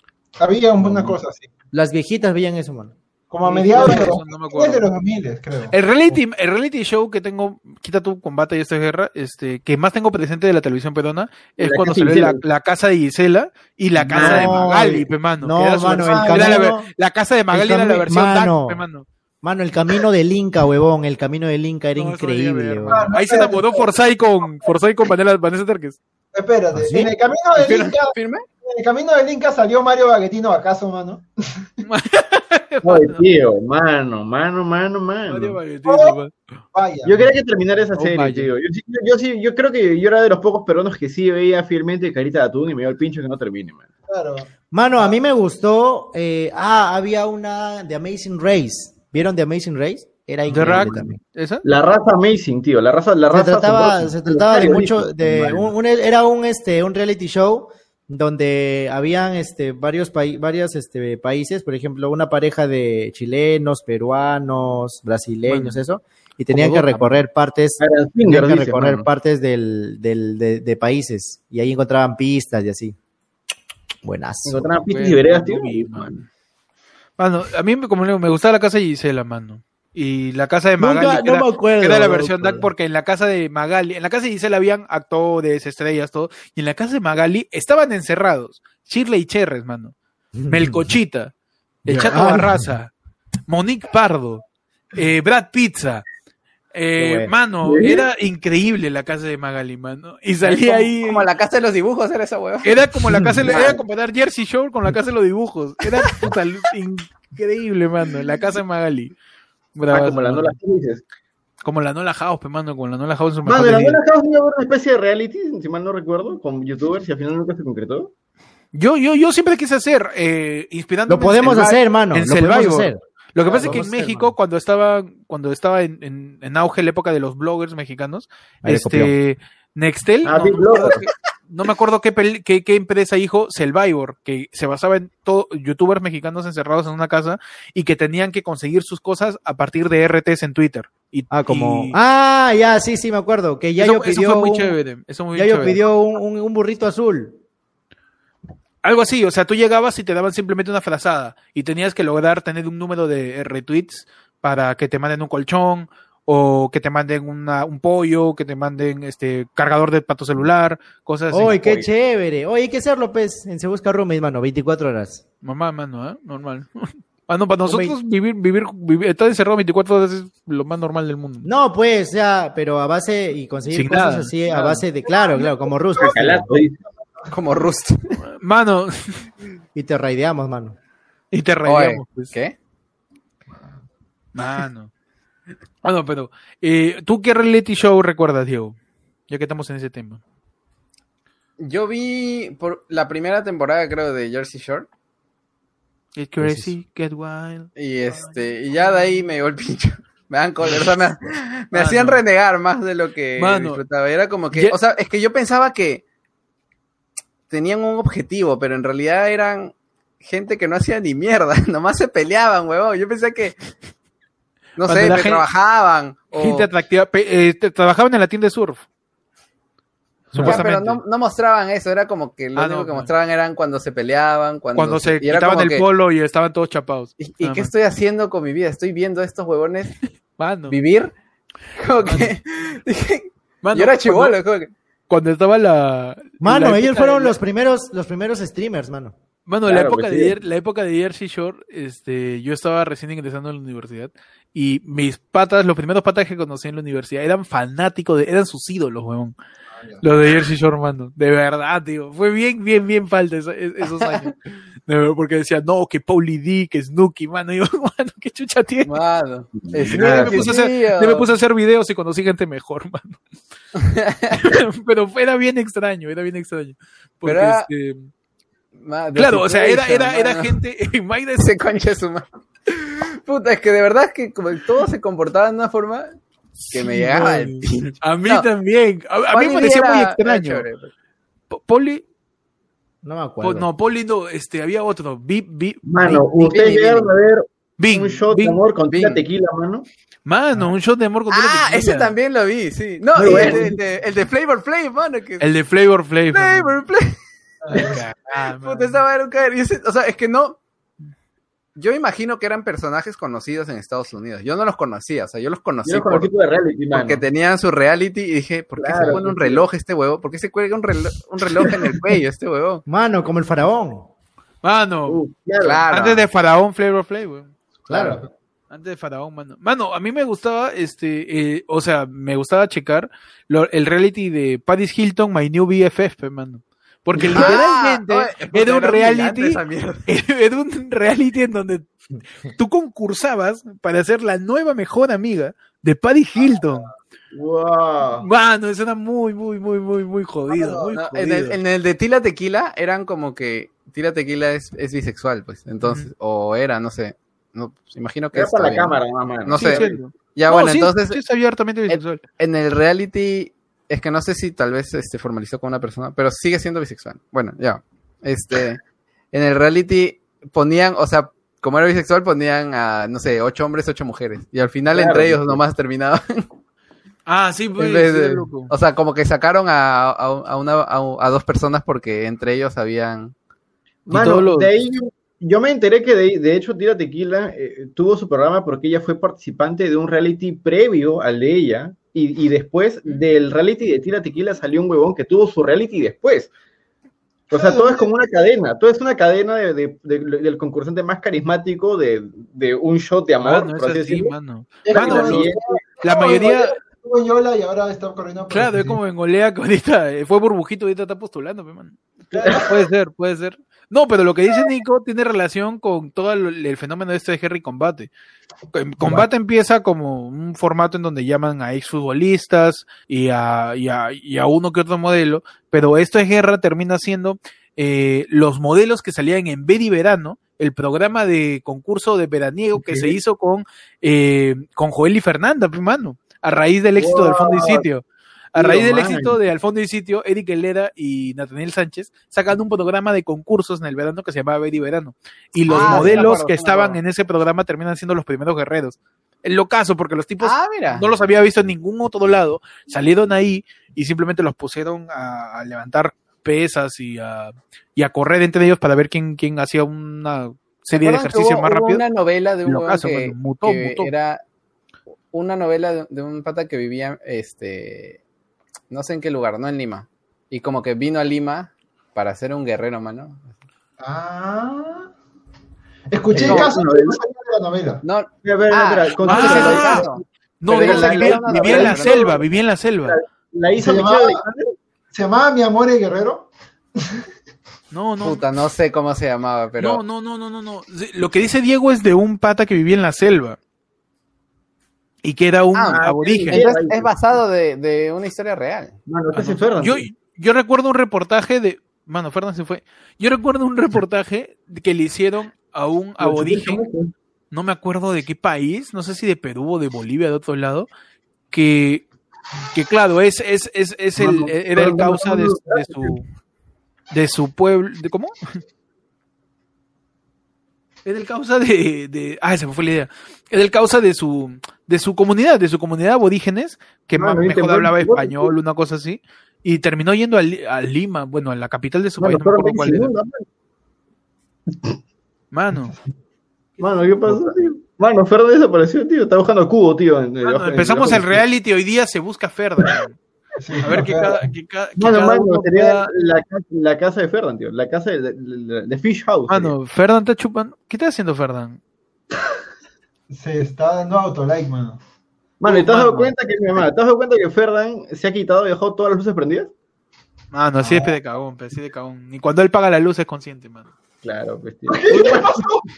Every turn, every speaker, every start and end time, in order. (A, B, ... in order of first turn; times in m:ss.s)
0:00.4-0:01.5 A
0:01.7-0:04.1 B
0:03.3-0:06.2 A
0:03.7-0:04.9 C
0:05.7-0:19.0 C
0:11.6-0:12.4 D
0:14.1-0:14.7 D
0:14.1-0:16.9 B
0:16.1-0:16.6 A
0:17.5-0:18.8 B
0:19.4-0:23.1 B
0:22.0-0:26.0 C
0:22.9-0:23.9 A
0:26.3-0:31.6 A
0:26.7-0:27.1 B
0:27.5-0:28.4 E
0:31.8-0:33.2 C
0:32.8-0:35.6 D
0:35.3-0:36.3 C
0:35.8-0:36.2 A
0:36.7-0:37.4 A
0:37.0-0:43.8 D
0:38.0-0:38.5 C
0:44.1-0:44.5 A
0:44.7-0:51.2 B
0:50.5-0:51.6 C
0:51.6-0:55.7 D
0:53.3-1:13.0 B
1:05.5-1:05.8 C
1:06.5-1:07.2 C
1:07.8-1:09.1 D
1:14.0-1:14.7 B
1:14.4-1:16.2 D
1:14.9-1:16.2 C
1:17.2-1:29.9 C
1:20.8-1:22.7 B
1:30.4-1:30.9 B
1:30.5-1:31.3 C
1:31.8-1:32.9 C
1:31.9-1:32.7 B
1:33.5-1:36.0 C
1:36.7-1:41.3 C
1:37.0-1:37.3 B
1:37.6-1:38.0 D
1:40.4-1:42.8 E
1:42.6-1:49.1 C
1:43.1-1:43.4 B
1:43.5-1:43.8 E
1:49.7-1:50.6 C
1:49.9-1:51.0 D
1:51.6-1:54.0 C
1:53.4-1:58.1 D
1:58.7-2:22.0 C
2:01.1-2:03.0 B
2:03.4-2:03.9 D
2:03.5-2:04.3 B
2:08.6-2:09.1 B
2:10.2-2:11.1 D
2:21.3-2:24.8 B
2:23.8-2:25.8 C
2:25.3-2:27.4 B
2:28.8-2:41.8 C
2:41.3-2:45.2 B
2:45.4-2:51.5 C
2:47.6-2:48.0 B
2:51.4-2:56.5 B
2:53.7-2:54.8 C
2:55.2-2:56.2 A
2:56.0-2:56.8 D
2:57.3-2:58.2 E
2:58.3-2:59.2 C
2:59.7-3:00.8 B
3:01.3-3:02.3 C
3:01.6-3:02.6 E
3:04.3-3:04.9 C
3:05.8-3:08.8 C
3:09.3-3:10.2 C
3:11.6-3:14.9 E
3:16.2-3:18.3 C
3:16.4-3:16.7 B
3:17.8-3:26.0 E
3:21.7-3:22.2 C
3:23.4-3:23.8 C
3:27.5-3:33.5 E
3:34.8-3:36.7 E
3:34.8-3:35.4 C
3:36.3-3:38.8 C
3:40.3-3:41.0 C
3:40.4-3:45.8 E
3:42.6-3:43.1 C
3:44.7-3:47.7 C
3:47.2-3:50.0 E
3:50.4-3:50.8 C
3:50.7-3:51.1 E
3:51.7-3:54.7 E
3:52.0-3:52.3 C
3:53.6-3:54.4 C
3:55.1-3:57.4 C
3:56.4-3:59.1 B
3:59.5-4:09.3 C
3:59.7-4:00.3 D
4:09.8-4:10.0 A
4:10.0-4:14.3 C
4:13.8-4:14.3 E
4:14.9-4:19.0 C
4:18.8-4:21.3 E
4:19.5-4:20.5 D
4:19.8-4:23.2 C
4:23.7-4:24.6 E
4:24.3-4:28.1 C
4:27.2-4:27.7 E
4:28.7-4:30.6 E
4:29.1-4:31.5 C
4:31.4-4:36.1 E
4:36.7-4:38.5 E
4:36.7-4:40.6 C
4:39.3-4:40.9 E
4:41.5-4:42.0 C
4:43.0-4:43.7 B
4:43.4-4:46.2 C
4:45.8-4:49.8 D
4:46.3-4:47.1 E
4:47.8-4:48.6 C
4:48.9-4:49.2 E
4:50.2-4:52.1 C
4:51.3-4:55.5 E
4:53.1-4:53.8 D
4:55.4-4:56.7 C
4:56.3-4:57.2 E
4:57.6-4:58.0 A
4:57.7-4:59.0 C
4:57.7-4:58.0 E
4:58.6-5:00.6 E
5:01.8-5:06.3 E
5:05.8-5:07.2 D
5:06.9-5:12.8 E
5:08.8-5:09.6 D
5:12.9-5:14.1 B
5:14.6-5:15.2 C
5:15.1-5:15.9 D
5:15.6-5:16.3 E
5:15.9-5:17.5 C
5:17.9-5:18.2 B
5:17.9-5:18.3 A
5:18.7-5:31.9 C
5:27.3-5:30.1 E
5:32.4-5:36.9 C
5:37.3-5:38.3 D
5:38.2-5:41.6 C
5:40.5-5:40.9 A
5:40.9-5:51.2 E
5:45.8-5:46.1 C
5:48.3-5:50.0 D
5:49.5-5:52.2 C
5:51.9-5:58.8 E
5:59.3-6:06.4 E
6:04.9-6:05.6 D
6:07.3-6:08.7 C
6:07.8-6:13.3 E
6:14.0-6:26.5 D
6:14.1-6:14.7 C
6:27.5-6:34.3 D
6:27.5-6:28.1 A
6:33.4-6:35.5 C
6:34.8-6:39.0 A
6:34.9-6:35.8 D
6:36.0-6:36.7 C
6:38.5-6:48.1 C
6:42.3-6:42.7 A
6:48.7-7:08.0 C
7:07.0-7:07.8 D
7:08.5-7:32.0 C
7:08.5-7:09.4 D
7:15.7-7:17.0 E
7:15.8-7:16.3 B
7:20.4-7:21.1 E
7:30.9-7:34.4 E
7:32.6-7:34.1 C
7:35.3-7:38.2 E
7:38.9-7:43.5 E
7:44.0-7:45.1 A
7:46.1-7:48.0 A
7:46.3-7:47.2 D
7:46.4-7:46.7 E
7:48.0-7:52.3 E
7:48.4-7:52.4 D
7:49.2-7:53.2 C
7:53.0-7:54.7 D
7:53.7-7:54.4 A
7:55.1-7:57.2 A
7:57.9-7:58.4 C
7:58.2-8:00.0 E
7:59.8-8:03.6 C
8:05.2-8:06.7 C
8:05.7-8:09.0 E
8:05.9-8:07.1 D
8:09.1-8:10.0 D
8:09.3-8:16.8 C
8:16.2-8:17.1 D
8:17.5-8:20.9 C
8:21.5-8:22.0 C
8:22.7-8:26.2 C
8:24.2-8:26.1 D
8:27.1-8:28.3 C
8:31.0-8:43.1 C
8:37.1-8:38.5 D
8:42.2-8:43.4 D
8:45.5-8:45.9 C
8:46.8-8:51.4 D
8:50.4-8:53.2 C
8:53.6-8:54.4 A
8:53.8-8:56.1 C
8:55.0-8:59.7 D
8:59.5-9:01.8 C
9:03.3-9:05.0 A
9:05.6-9:09.7 D
9:05.6-9:06.3 C
9:10.5-9:13.9 C
9:10.8-9:11.1 A
9:14.2-9:15.6 D
9:14.9-9:15.8 A